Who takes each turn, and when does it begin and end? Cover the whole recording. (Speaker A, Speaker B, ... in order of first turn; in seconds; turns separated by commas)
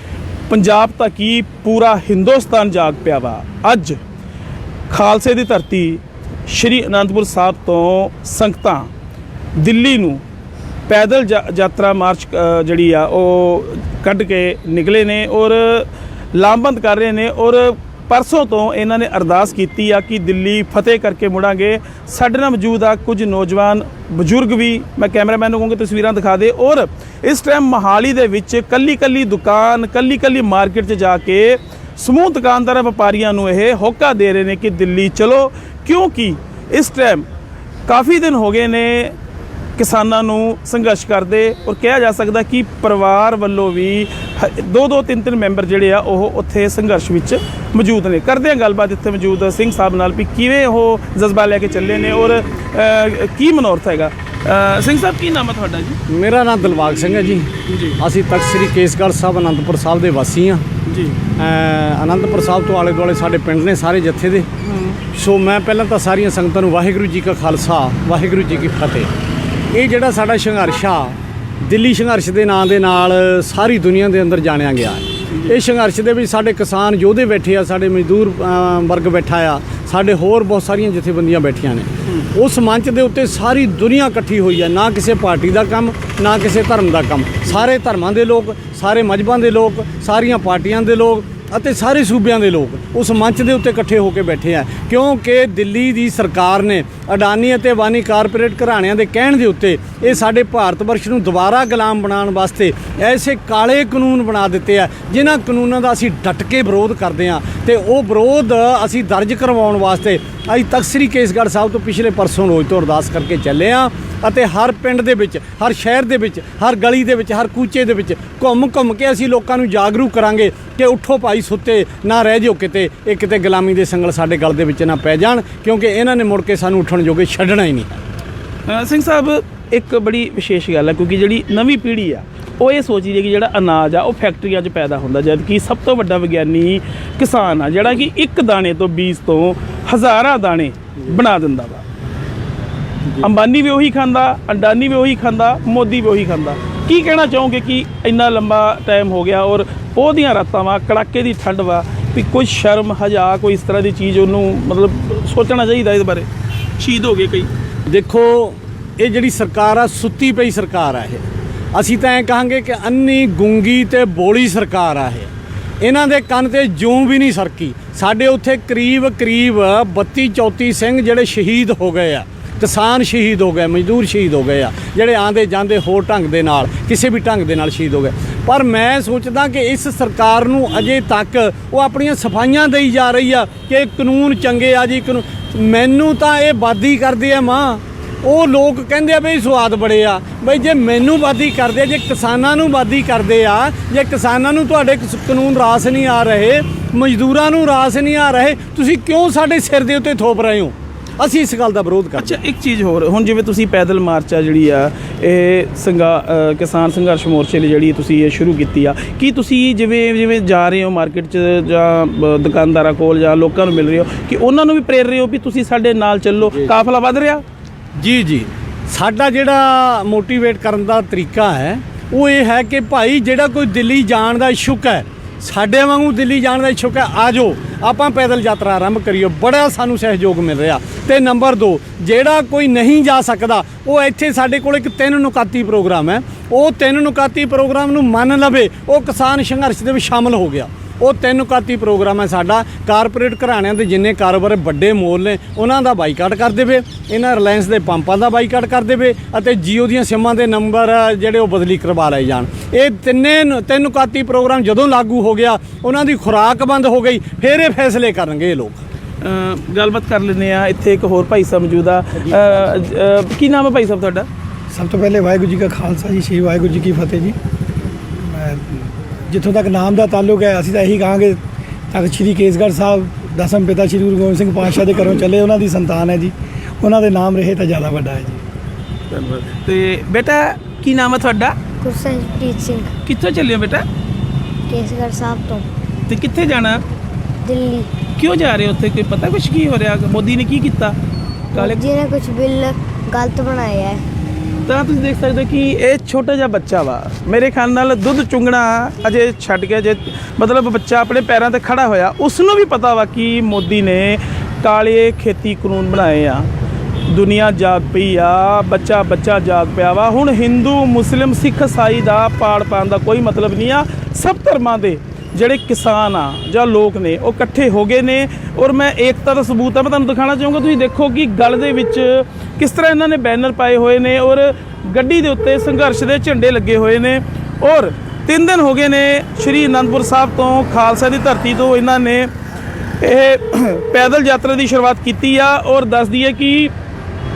Speaker A: 0.5-4.0, Speaker A: 4.9-8.9, Speaker A: 9.6-10.2, Speaker A: 10.9-37.3, Speaker A: 37.9-39.1, Speaker A: 39.8-56.0, Speaker B: 56.1-60.6, Speaker A: 57.7-58.0, Speaker A: 60.9-61.2, Speaker B: 61.4-64.5, Speaker A: 64.6-65.0, Speaker B: 65.1-69.1, Speaker B: 69.7-128.0, Speaker A: 128.7-141.8, Speaker A: 143.2-157.5, Speaker B: 157.9-165.3, Speaker B: 165.8-202.4, Speaker A: 202.2-217.4, Speaker B: 218.0-258.8, Speaker A: 259.2-264.3, Speaker C: 264.7-267.4, Speaker C: 268.2-271.4, Speaker C: 271.9-278.4, Speaker A: 279.1-281.6, Speaker D: 281.8-282.9, Speaker A: 283.0-283.9, Speaker D: 284.7-285.7, Speaker A: 286.1-286.8, Speaker D: 287.4-287.9, Speaker A: 288.2-291.0, Speaker A: 291.5-291.8, Speaker D: 291.6-294.0, Speaker A: 294.7-306.5, Speaker A: 307.1-332.3, Speaker A: 333.0-336.7